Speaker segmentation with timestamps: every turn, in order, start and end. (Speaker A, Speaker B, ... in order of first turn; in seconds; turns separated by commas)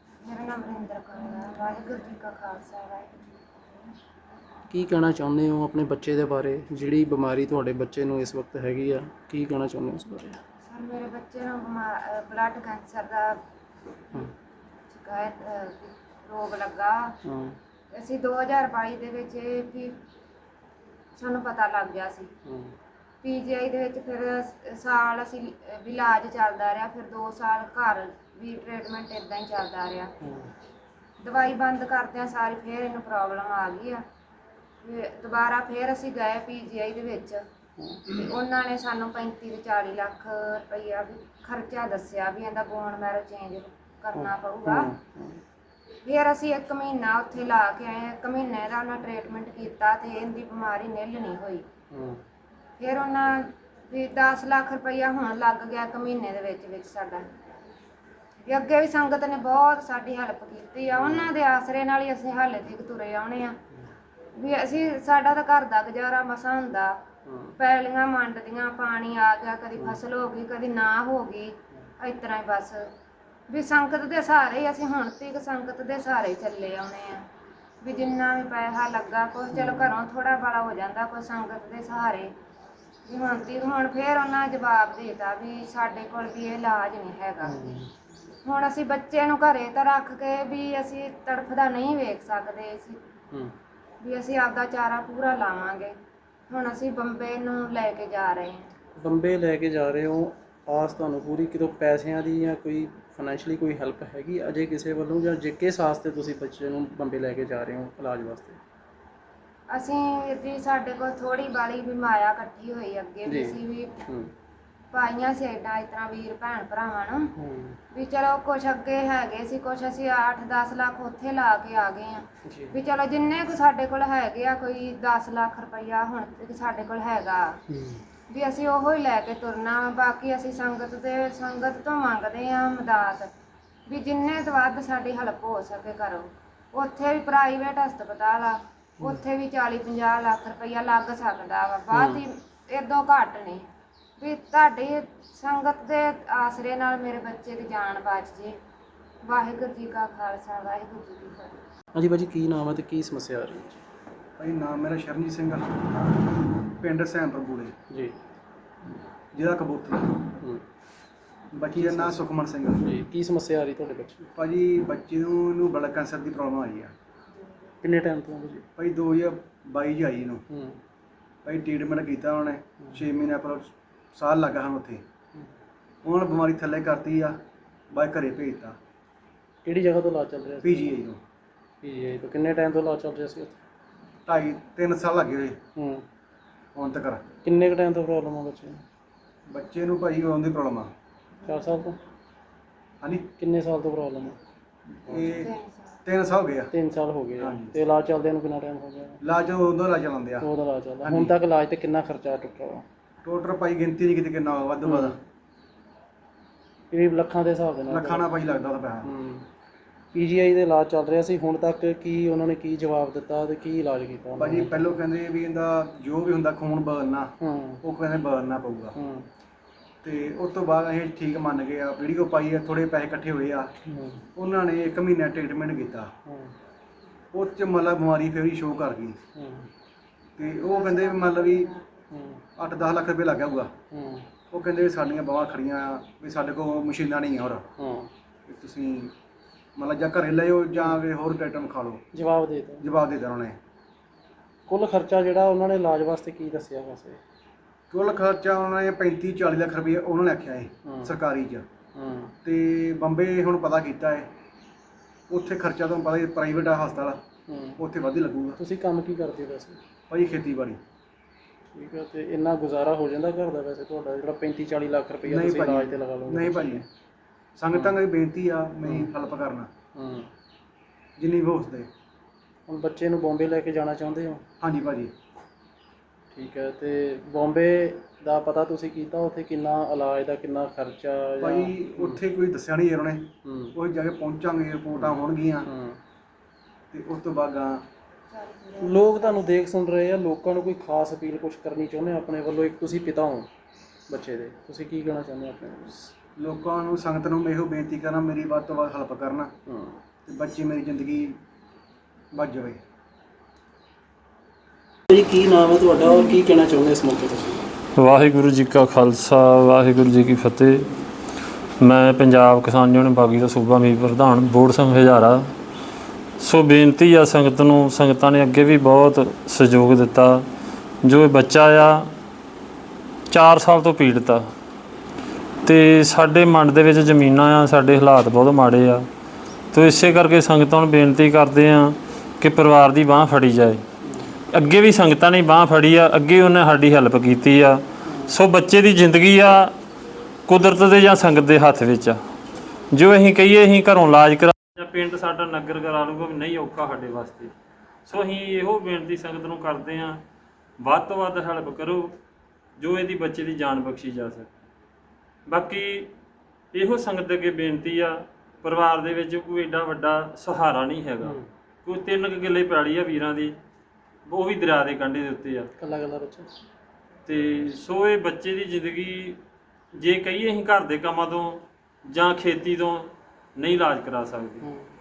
Speaker A: 0.2-3.2, Speaker B: 4.7-10.4, Speaker A: 10.6-13.4, Speaker A: 14.9-17.1, Speaker B: 17.2-17.6, Speaker A: 17.9-20.0, Speaker A: 21.1-22.3, Speaker B: 22.4-22.7, Speaker A: 23.2-30.1, Speaker B: 30.2-30.5, Speaker A: 31.2-34.0, Speaker A: 34.8-37.4, Speaker B: 37.8-38.1, Speaker A: 38.1-44.9, Speaker B: 44.1-45.4, Speaker A: 46.0-51.7, Speaker B: 51.9-52.2, Speaker A: 52.8-57.2, Speaker A: 58.4-63.6, Speaker B: 60.9-61.3, Speaker A: 64.3-67.0, Speaker B: 67.2-67.6, Speaker A: 67.6-72.9, Speaker A: 73.5-77.3, Speaker A: 77.8-82.3, Speaker B: 79.5-80.0, Speaker A: 83.0-87.6, Speaker B: 87.4-87.9, Speaker A: 88.4-93.0, Speaker A: 94.0-95.9, Speaker A: 96.5-98.7, Speaker B: 99.0-108.6, Speaker A: 109.7-114.0, Speaker B: 113.2-114.3, Speaker A: 114.9-117.3, Speaker B: 117.3-117.8, Speaker A: 117.9-127.6, Speaker B: 122.4-122.8, Speaker B: 127.7-128.0, Speaker A: 128.3-133.3, Speaker A: 133.9-143.7, Speaker B: 141.9-142.2, Speaker A: 144.2-148.6, Speaker A: 149.2-151.6, Speaker B: 151.9-153.8, Speaker C: 154.4-155.8, Speaker C: 156.6-157.7, Speaker B: 157.9-158.1, Speaker C: 159.3-160.3, Speaker B: 160.4-160.6, Speaker C: 161.5-162.9, Speaker B: 161.7-162.2, Speaker B: 162.8-164.3, Speaker C: 164.3-166.9, Speaker B: 167.8-168.7, Speaker C: 168.8-170.4, Speaker B: 170.5-170.8, Speaker C: 171.4-175.0, Speaker C: 176.0-177.4, Speaker C: 177.9-178.8, Speaker B: 179.6-180.9, Speaker C: 180.6-181.2, Speaker B: 181.8-183.6, Speaker C: 184.2-185.6, Speaker B: 185.8-186.0, Speaker C: 186.7-187.2, Speaker B: 187.4-188.8, Speaker C: 189.5-190.9, Speaker A: 191.4-191.9, Speaker B: 191.4-192.0, Speaker C: 193.0-193.3, Speaker B: 193.3-194.4, Speaker C: 195.0-195.5, Speaker B: 195.1-195.4, Speaker A: 195.3-196.0, Speaker C: 196.0-196.7, Speaker B: 196.7-199.2, Speaker C: 197.4-197.8, Speaker C: 199.2-200.5, Speaker B: 200.4-202.8, Speaker C: 201.0-201.3, Speaker C: 203.2-205.2, Speaker B: 204.8-205.2, Speaker B: 206.9-208.3, Speaker C: 207.9-209.1, Speaker B: 209.0-209.4, Speaker B: 210.1-214.9, Speaker C: 214.3-218.9, Speaker B: 217.4-217.8, Speaker B: 218.9-219.3, Speaker C: 220.0-223.7, Speaker B: 223.8-224.2, Speaker C: 224.3-226.1, Speaker B: 226.2-226.5, Speaker C: 227.3-229.2, Speaker B: 229.3-229.7, Speaker C: 230.4-231.7, Speaker A: 230.6-231.9, Speaker B: 232.1-232.4, Speaker C: 232.6-233.7, Speaker B: 233.9-234.3, Speaker C: 234.5-237.7, Speaker B: 237.8-238.1, Speaker C: 238.4-239.1, Speaker C: 239.8-242.0, Speaker B: 242.1-242.8, Speaker C: 242.8-243.6, Speaker B: 244.7-247.2, Speaker C: 247.9-251.6, Speaker B: 250.8-251.1, Speaker B: 251.9-252.3, Speaker C: 252.4-254.3, Speaker C: 255.3-257.2, Speaker B: 257.5-257.8, Speaker C: 257.8-258.6, Speaker B: 258.6-259.8, Speaker C: 260.1-260.8, Speaker B: 261.7-266.8, Speaker C: 265.2-266.9, Speaker C: 267.6-269.7, Speaker B: 267.7-268.0, Speaker B: 268.8-269.1, Speaker B: 269.9-270.3, Speaker C: 271.2-271.9, Speaker B: 272.7-274.4, Speaker C: 274.6-275.1, Speaker B: 276.3-282.2, Speaker C: 281.4-285.7, Speaker B: 283.4-283.7, Speaker B: 285.0-286.0, Speaker C: 286.9-287.8, Speaker A: 288.3-289.6, Speaker B: 288.8-293.5, Speaker B: 294.1-296.1, Speaker C: 296.4-299.5, Speaker B: 299.7-300.0, Speaker C: 300.2-301.4, Speaker C: 302.3-302.8, Speaker B: 305.1-307.7, Speaker D: 307.9-310.9, Speaker D: 311.8-315.5, Speaker D: 316.4-320.4, Speaker D: 321.0-322.1, Speaker D: 323.3-324.5, Speaker D: 325.6-329.1, Speaker D: 329.7-333.8, Speaker B: 334.0-334.3, Speaker D: 334.5-339.7, Speaker B: 338.0-338.4, Speaker D: 340.5-342.2, Speaker D: 342.9-347.5, Speaker D: 348.1-350.2, Speaker D: 350.8-352.2, Speaker D: 352.8-354.5, Speaker D: 355.5-356.1, Speaker D: 356.7-363.6, Speaker B: 361.2-361.5, Speaker D: 364.2-365.7, Speaker B: 365.8-366.5, Speaker D: 367.2-369.4, Speaker D: 369.9-374.6, Speaker B: 374.6-374.9